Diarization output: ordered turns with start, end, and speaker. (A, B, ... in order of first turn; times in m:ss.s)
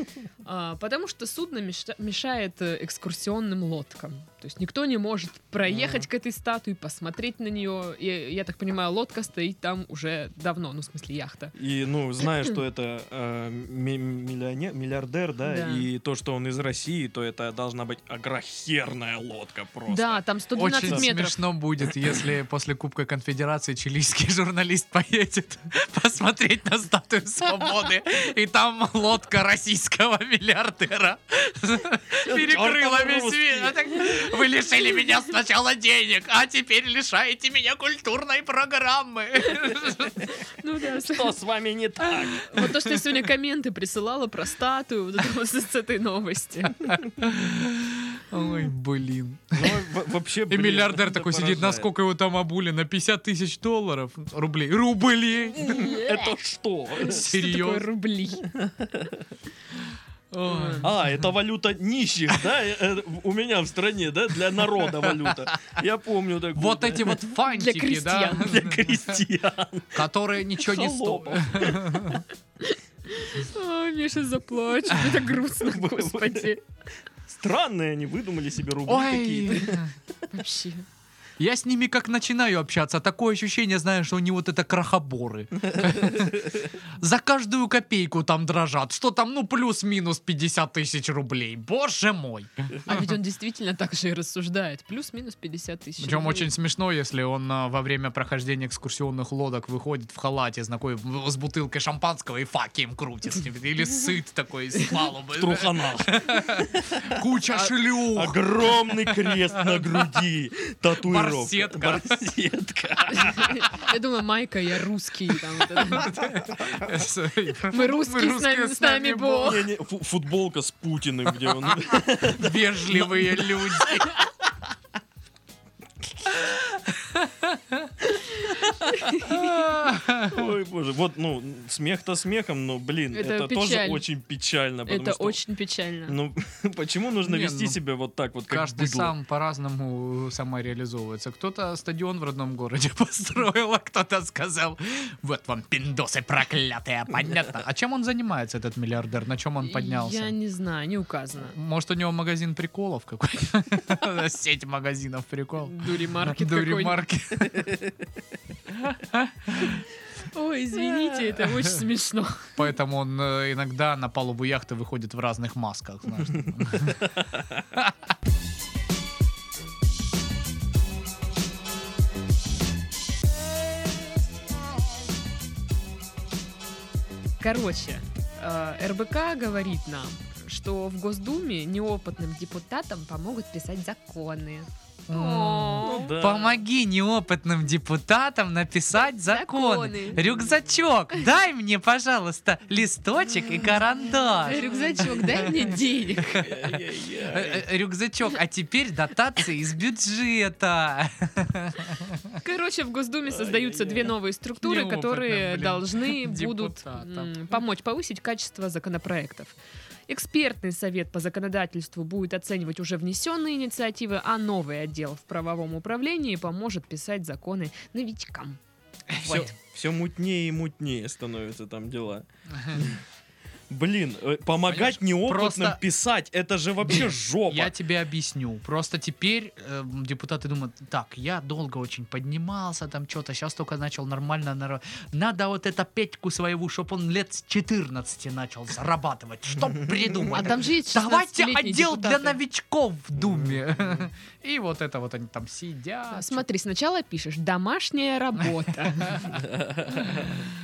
0:00.4-0:11.5 A
0:05.7-0:06.1 B
0:11.6-0:20.2 B
0:15.4-0:15.9 A
0:19.9-0:21.4 A
0:20.6-0:40.3 C
0:20.8-0:21.1 B
0:32.2-0:34.0 B
0:40.2-0:41.4 A
0:41.0-0:42.7 B
0:42.0-0:46.9 A
0:46.9-0:49.9 C
0:49.6-0:51.9 B
0:50.5-0:55.8 C
0:55.6-0:57.3 B
0:55.6-0:56.3 A
0:57.0-0:58.5 A
0:57.0-0:57.9 C
0:58.6-0:59.3 B
1:00.3-1:01.3 C
1:00.5-1:00.9 A
1:00.8-1:07.2 B
1:05.0-1:05.5 C
1:06.6-1:09.2 C
1:07.4-1:08.7 A
1:08.4-1:12.1 B
1:09.9-1:12.2 C
1:12.6-1:16.6 A
1:15.6-1:16.6 B
1:17.3-1:19.8 B
1:18.9-1:19.9 C
1:20.3-1:20.8 A
1:21.4-1:33.0 C
1:25.9-1:26.4 B
1:32.9-1:36.5 A
1:36.0-1:49.8 C
1:45.4-1:47.2 B
1:47.9-1:53.7 B
1:51.0-1:52.2 C
1:53.1-1:56.2 A
1:55.8-1:59.6 C
1:57.7-1:59.7 A
1:59.4-2:04.0 B
2:01.9-2:04.1 C
2:06.3-2:07.9 C
2:08.4-2:09.5 A
2:09.2-2:10.5 C
2:10.3-2:15.4 B
2:13.1-2:14.0 A
2:14.9-2:16.2 A
2:16.1-2:19.1 B
2:17.2-2:17.8 C
2:18.5-2:30.3 C
2:29.6-2:31.6 A
2:31.5-2:37.7 C
2:35.6-2:37.0 A
2:37.6-2:37.9 B
2:38.9-2:39.8 C
2:40.3-2:42.5 A
2:40.8-2:41.2 B
2:42.6-2:47.9 C
2:57.4-3:06.2 A
3:05.1-3:15.5 C
3:05.8-3:06.6 B
3:09.2-3:10.6 A
3:14.4-3:16.6 A
3:16.2-3:16.5 C
3:16.4-3:17.7 B
3:17.2-3:22.4 C
3:22.4-3:29.6 A
3:23.3-3:24.2 B
3:24.6-3:27.4 C
3:30.1-3:38.6 A
3:39.1-3:39.5 C
3:39.2-3:39.5 A
3:39.2-3:43.0 B
3:42.5-3:42.9 C
3:43.7-3:47.7 B
3:44.7-3:45.8 C
3:46.9-4:06.4 C
4:00.3-4:02.4 A
4:03.2-4:04.0 B
4:06.1-4:09.4 A
4:08.9-4:09.4 C
4:09.3-4:10.4 B
4:10.0-4:10.2 A